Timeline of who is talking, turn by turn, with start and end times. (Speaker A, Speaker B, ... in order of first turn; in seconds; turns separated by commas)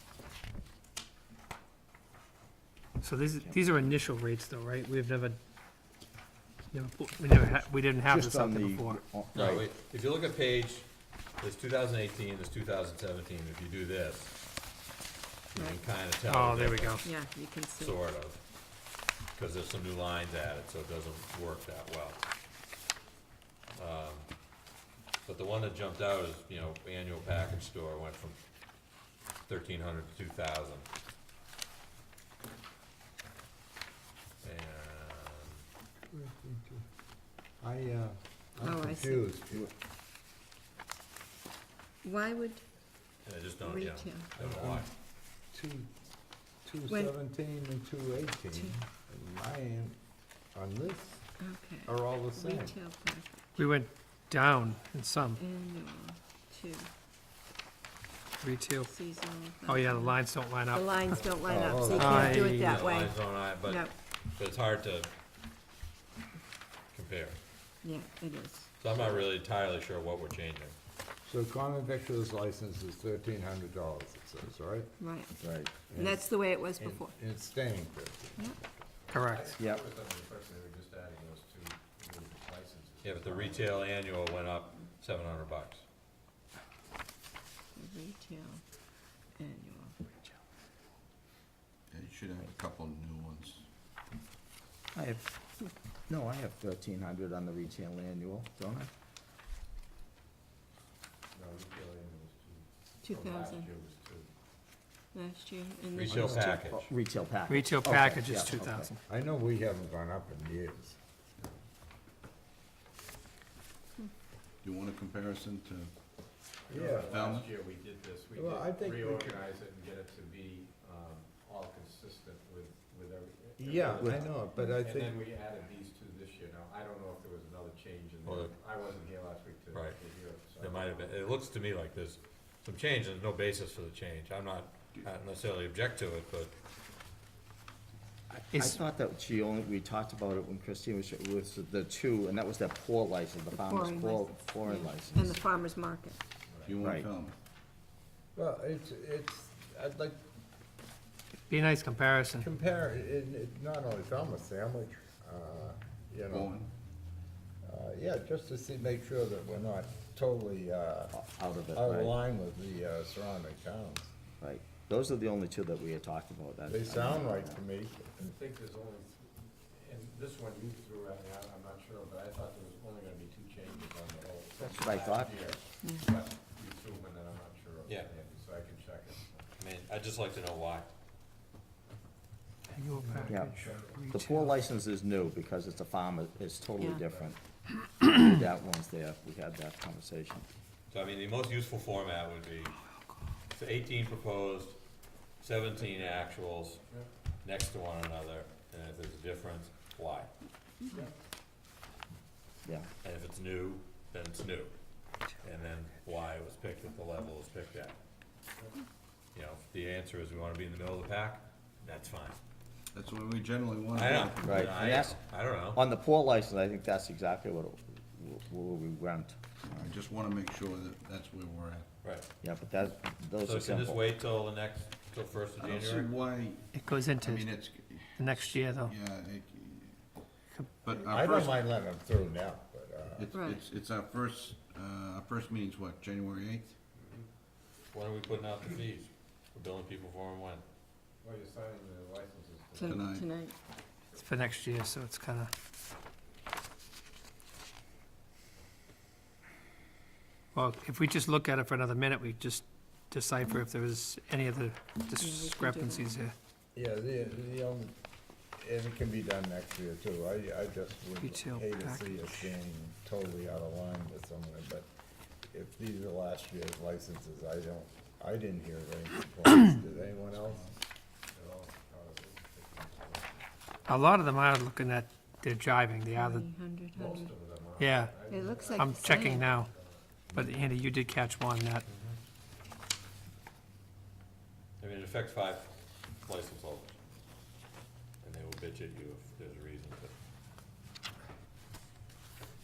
Speaker A: 3.0-5.4, Speaker A: 6.7-9.0, Speaker B: 8.1-9.7, Speaker C: 9.3-14.4, Speaker C: 15.5-17.0, Speaker D: 15.6-15.8, Speaker A: 16.2-17.1, Speaker D: 17.0-18.0, Speaker C: 17.8-18.4, Speaker C: 19.3-22.2, Speaker C: 23.8-24.3, Speaker C: 25.3-28.4, Speaker C: 29.5-30.9, Speaker C: 34.4-35.6, Speaker E: 36.1-36.8, Speaker E: 37.6-39.7, Speaker D: 38.6-39.2, Speaker D: 42.0-42.6, Speaker C: 43.2-44.9, Speaker D: 43.6-44.4, Speaker E: 44.5-44.9, Speaker E: 45.5-45.9, Speaker E: 46.6-50.0, Speaker E: 50.5-51.3, Speaker D: 51.4-53.6, Speaker E: 51.9-52.8, Speaker A: 53.6-55.4, Speaker D: 55.4-56.9, Speaker A: 58.4-58.9, Speaker D: 58.8-63.9, Speaker A: 59.6-60.9, Speaker F: 61.1-61.9, Speaker E: 61.5-62.4, Speaker A: 61.9-62.8, Speaker C: 62.5-65.1, Speaker C: 66.9-67.4, Speaker D: 67.8-68.7, Speaker C: 68.8-70.8, Speaker E: 71.2-74.9, Speaker D: 75.0-77.1, Speaker B: 75.4-75.7, Speaker E: 75.9-78.6, Speaker F: 79.1-83.8, Speaker A: 79.1-79.5, Speaker B: 79.6-79.8, Speaker C: 83.0-85.8, Speaker D: 87.8-88.6, Speaker D: 89.4-90.3, Speaker G: 91.9-93.7, Speaker B: 94.9-95.4, Speaker B: 96.1-98.9, Speaker F: 101.3-104.3, Speaker D: 103.0-103.7, Speaker D: 105.1-106.4, Speaker C: 105.9-106.9, Speaker B: 106.0-109.0, Speaker A: 107.5-108.9, Speaker E: 109.1-111.0, Speaker G: 114.6-115.9, Speaker F: 116.7-131.1, Speaker E: 116.7-117.1, Speaker G: 116.8-117.6, Speaker E: 118.4-119.4, Speaker E: 123.6-125.2, Speaker B: 124.0-124.2, Speaker C: 128.2-128.6, Speaker C: 129.7-130.0, Speaker C: 130.6-136.5, Speaker B: 138.3-145.4, Speaker A: 138.5-138.8, Speaker D: 143.5-146.2, Speaker F: 146.5-146.8, Speaker G: 146.7-147.4, Speaker B: 146.8-147.1, Speaker E: 148.4-150.2, Speaker A: 151.5-152.5, Speaker E: 152.4-156.6, Speaker G: 156.3-156.7, Speaker E: 157.6-161.1, Speaker B: 161.1-162.2, Speaker E: 161.7-164.1, Speaker B: 164.4-167.6, Speaker E: 166.7-168.3, Speaker F: 168.2-179.5, Speaker B: 174.6-175.5, Speaker D: 175.8-176.1, Speaker C: 177.9-178.1, Speaker C: 179.6-180.9, Speaker A: 182.7-184.6, Speaker F: 183.0-184.0, Speaker B: 183.3-187.4, Speaker B: 188.0-190.5, Speaker C: 190.9-192.8, Speaker C: 193.5-194.8, Speaker C: 195.4-196.8, Speaker F: 195.8-196.3, Speaker C: 197.4-200.3, Speaker C: 203.0-204.8, Speaker C: 205.4-208.0, Speaker C: 209.3-212.4, Speaker G: 212.9-214.6, Speaker C: 213.9-215.8, Speaker B: 214.4-219.4, Speaker G: 219.7-221.9, Speaker B: 222.4-224.0, Speaker C: 223.4-226.1, Speaker G: 225.6-230.0, Speaker A: 226.7-227.6, Speaker A: 228.2-228.9, Speaker G: 230.8-231.6, Speaker E: 231.0-233.3, Speaker G: 233.2-236.8, Speaker D: 233.3-233.6, Speaker F: 237.0-237.3, Speaker C: 237.9-240.6, Speaker F: 241.2-243.2, Speaker D: 242.8-243.6, Speaker G: 242.8-243.3, Speaker A: 244.2-245.5, Speaker A: 250.5-256.3, Speaker D: 255.2-256.2, Speaker E: 256.8-257.9, Speaker E: 258.6-264.9, Speaker A: 261.2-262.5, Speaker E: 265.5-270.7, Speaker F: 271.3-273.5, Speaker A: 273.9-276.4, Speaker D: 276.1-277.3, Speaker F: 276.9-280.2, Speaker A: 277.8-279.7, Speaker D: 278.3-279.5, Speaker A: 280.3-281.9, Speaker C: 281.9-282.2, Speaker C: 284.8-287.0, Speaker C: 288.2-290.1